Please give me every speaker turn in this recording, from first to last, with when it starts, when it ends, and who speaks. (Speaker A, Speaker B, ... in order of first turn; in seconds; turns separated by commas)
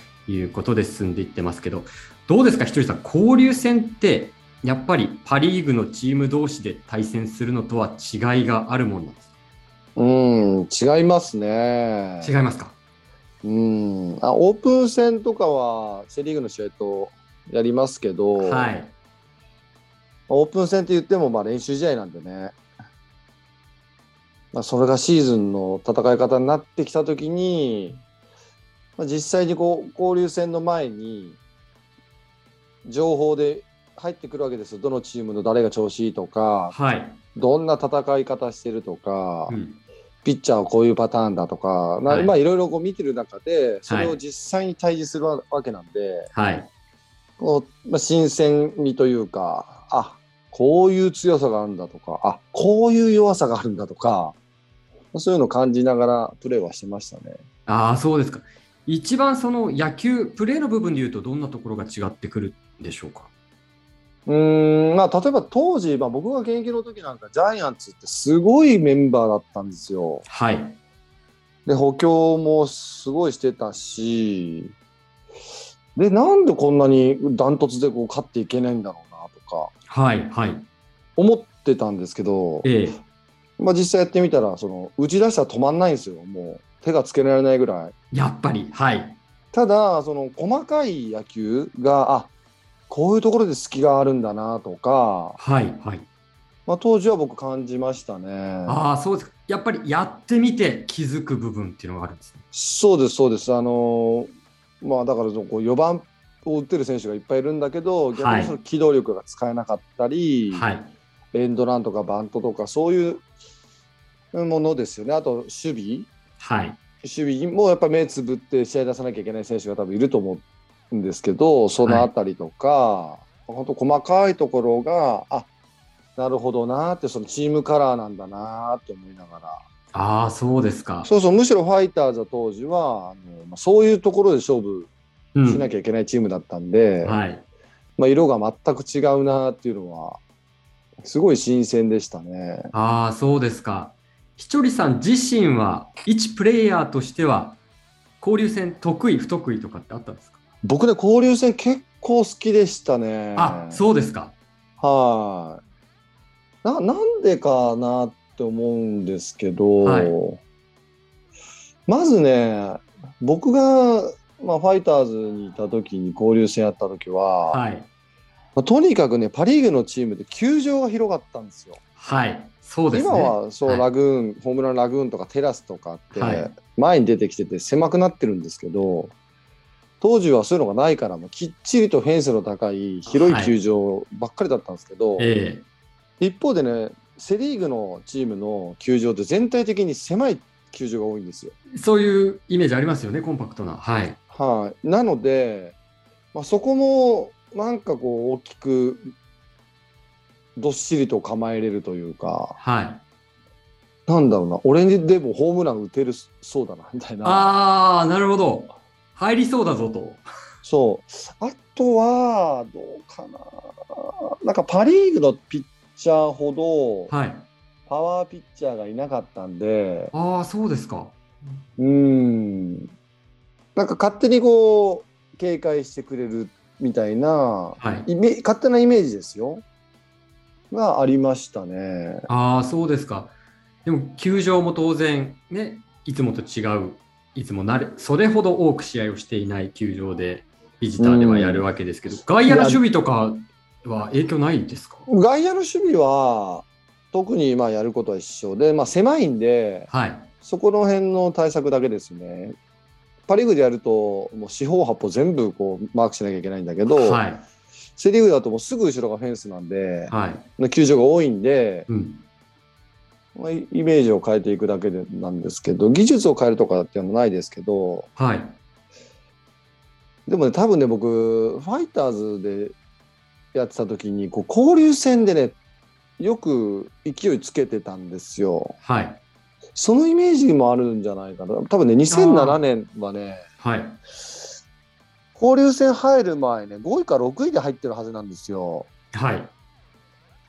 Speaker A: 0.3-9.3, Speaker B: 9.9-12.3, Speaker A: 12.2-12.8, Speaker B: 13.4-18.7, Speaker A: 18.4-18.9, Speaker B: 20.3-22.5, Speaker B: 24.5-28.0, Speaker B: 29.0-31.4, Speaker B: 32.9-36.7, Speaker A: 36.7-37.2, Speaker B: 37.3-39.5, Speaker A: 39.5-39.8, Speaker B: 40.2-46.3, Speaker A: 42.1-42.3, Speaker A: 43.9-44.1, Speaker A: 46.3-46.7, Speaker B: 47.4-54.4, Speaker B: 55.1-57.4, Speaker A: 57.7-63.3, Speaker B: 64.2-70.2, Speaker A: 70.3-70.8, Speaker B: 71.7-74.7, Speaker B: 76.0-79.7, Speaker A: 79.9-80.7, Speaker B: 81.2-82.7, Speaker A: 82.6-83.0, Speaker B: 83.6-87.9, Speaker A: 88.1-89.2, Speaker B: 89.5-92.3, Speaker B: 92.9-95.4, Speaker A: 95.4-96.0, Speaker B: 96.7-98.8, Speaker A: 98.7-102.4, Speaker B: 102.5-104.3, Speaker B: 104.8-110.6, Speaker A: 108.1-108.5, Speaker A: 110.5-110.9, Speaker B: 111.3-113.2, Speaker B: 114.3-116.1, Speaker A: 116.4-116.8, Speaker B: 117.0-125.5, Speaker A: 121.8-122.1, Speaker B: 126.2-129.6, Speaker A: 129.9-131.1, Speaker B: 131.0-134.9, Speaker A: 135.3-135.6, Speaker B: 135.4-137.2, Speaker A: 137.0-137.4, Speaker B: 138.0-140.2, Speaker B: 141.0-142.7, Speaker A: 142.7-147.6, Speaker A: 148.2-150.4, Speaker B: 150.6-153.8, Speaker A: 153.3-154.3, Speaker B: 154.8-155.6, Speaker B: 156.6-160.4, Speaker A: 159.8-160.2, Speaker B: 161.9-167.6, Speaker A: 167.5-167.9, Speaker B: 168.6-171.8, Speaker A: 172.0-173.8, Speaker B: 172.9-179.1, Speaker A: 176.1-176.5, Speaker B: 180.0-185.3, Speaker A: 183.1-183.5, Speaker A: 185.2-185.6, Speaker B: 186.2-191.5, Speaker A: 191.7-194.2, Speaker B: 194.3-195.8, Speaker B: 196.3-199.1, Speaker B: 200.6-202.6, Speaker A: 202.6-203.0, Speaker B: 204.1-207.5, Speaker A: 207.2-210.2, Speaker B: 210.6-217.1, Speaker A: 217.1-217.5, Speaker B: 217.9-220.1, Speaker A: 220.1-221.1, Speaker B: 221.8-222.9, Speaker B: 223.8-229.6, Speaker A: 227.8-228.1, Speaker B: 230.7-232.3, Speaker A: 232.3-233.3, Speaker A: 233.8-245.1, Speaker B: 241.0-241.7, Speaker B: 242.4-242.8, Speaker B: 245.1-249.9, Speaker A: 249.9-250.3, Speaker B: 250.4-252.5, Speaker B: 253.3-257.2, Speaker A: 256.9-257.4, Speaker B: 258.0-261.9, Speaker A: 260.1-260.4, Speaker A: 261.9-262.2, Speaker B: 263.3-268.1, Speaker A: 268.2-268.6, Speaker B: 270.3-272.7, Speaker B: 273.5-275.6, Speaker B: 276.2-278.8, Speaker A: 278.8-279.2, Speaker B: 279.8-283.4, Speaker A: 282.1-282.6, Speaker A: 283.6-284.0, Speaker B: 285.4-288.9, Speaker A: 289.1-289.5